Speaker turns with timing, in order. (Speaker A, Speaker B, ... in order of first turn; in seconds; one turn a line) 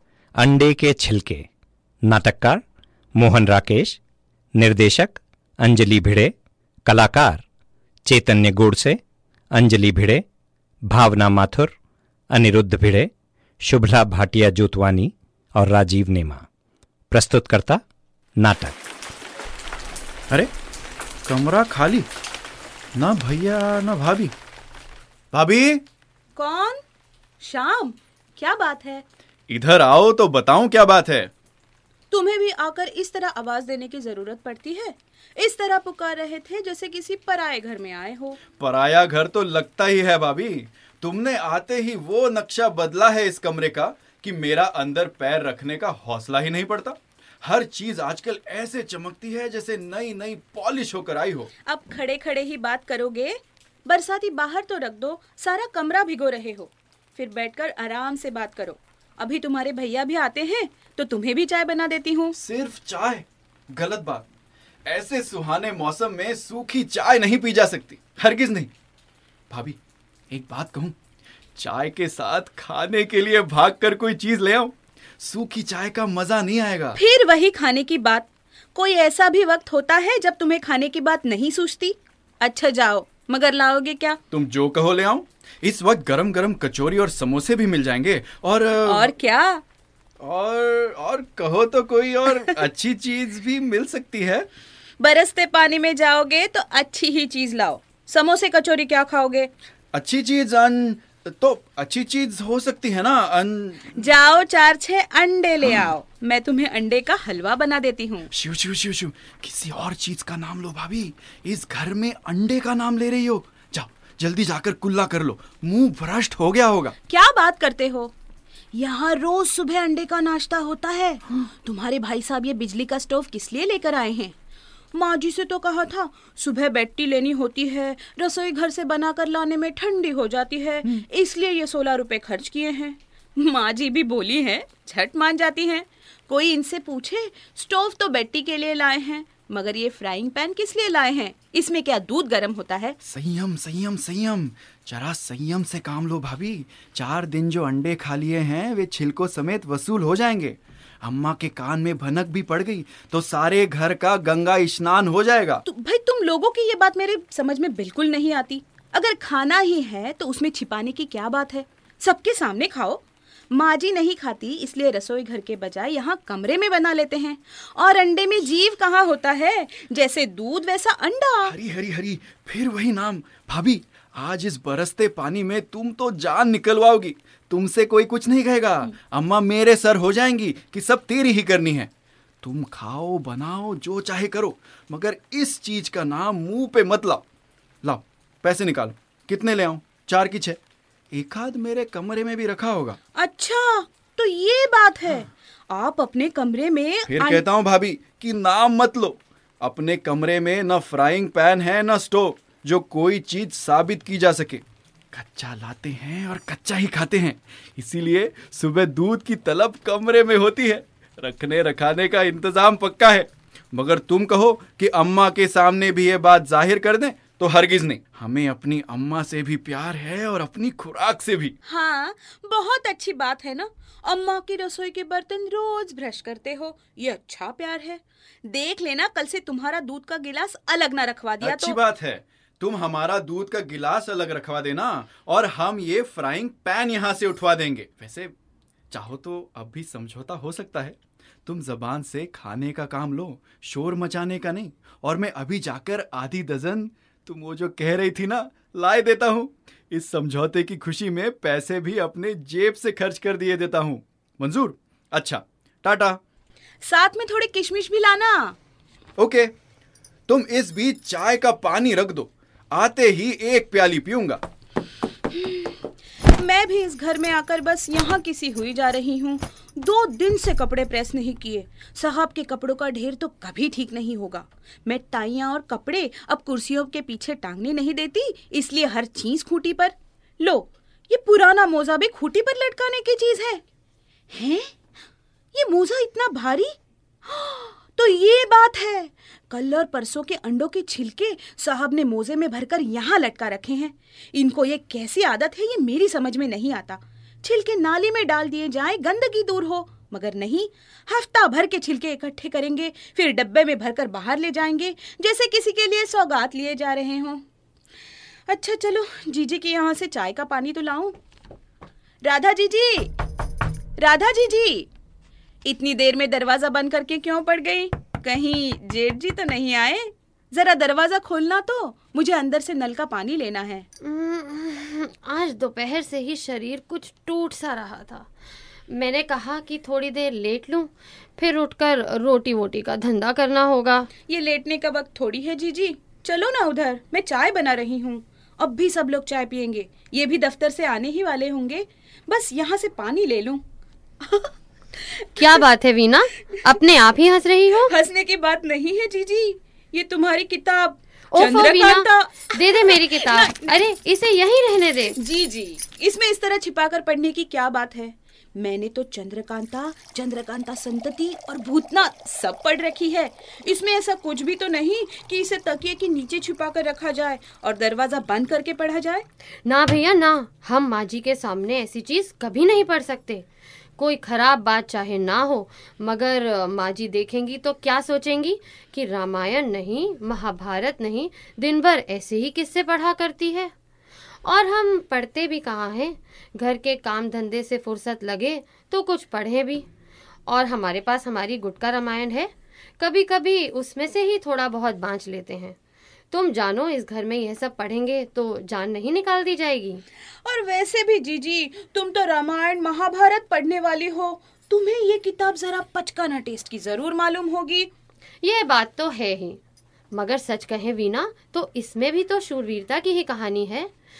Speaker A: 0.4-1.4
Speaker A: 2.0-2.6
Speaker A: 3.2-4.0
Speaker A: 4.6-6.3
Speaker A: 6.8-7.4
Speaker A: 8.1-9.0
Speaker A: 9.5-10.2
Speaker A: 10.9-11.7
Speaker A: 12.3-13.1
Speaker A: 13.6-16.4
Speaker A: 17.1-17.8
Speaker A: 18.4-18.7
Speaker B: 21.2-22.1
Speaker B: 22.9-24.3
Speaker B: 25.3-25.8
Speaker C: 26.4-26.8
Speaker C: 27.4-29.0
Speaker B: 29.5-31.3
Speaker C: 32.1-38.4
Speaker B: 38.6-51.5
Speaker C: 51.7-62.3
Speaker B: 62.3-64.2
Speaker B: 64.8-68.7
Speaker B: 69.5-69.8
Speaker B: 70.3-70.9
Speaker B: 71.6-77.0
Speaker C: 76.9-84.2
Speaker B: 84.3-89.1
Speaker C: 88.8-89.6
Speaker B: 90.2-94.5
Speaker C: 95.0-99.5
Speaker B: 99.9-104.0
Speaker C: 103.9-108.3
Speaker B: 108.3-116.9
Speaker C: 117.1-118.1
Speaker C: 118.7-124.3
Speaker C: 124.9-143.0
Speaker B: 143.0-155.6
Speaker C: 155.6-171.5
Speaker B: 171.4-181.9
Speaker B: 182.4-187.2
Speaker B: 187.8-190.6
Speaker B: 191.1-193.0
Speaker C: 193.2-197.4
Speaker B: 197.1-221.5
Speaker C: 221.7-231.8
Speaker B: 231.4-238.3
Speaker B: 238.9-256.2
Speaker C: 256.8-258.6
Speaker B: 259.2-259.5
Speaker B: 260.3-264.4
Speaker C: 265.3-283.6
Speaker C: 284.3-284.7
Speaker C: 285.5-307.4
Speaker C: 308.5-311.1
Speaker C: 312.2-313.2
Speaker C: 314.0-314.9
Speaker C: 315.6-323.9
Speaker D: 324.0-328.3
Speaker D: 328.9-334.1
Speaker C: 334.3-343.6
Speaker D: 345.4-347.9
Speaker C: 347.8-353.8
Speaker D: 351.3-355.2
Speaker C: 355.1-369.2
Speaker D: 369.6-373.4
Speaker D: 374.0-383.7
Speaker D: 384.4-389.9
Speaker D: 390.5-395.8
Speaker D: 396.3-400.0
Speaker C: 400.4-407.9
Speaker D: 408.4-409.6
Speaker D: 410.1-413.9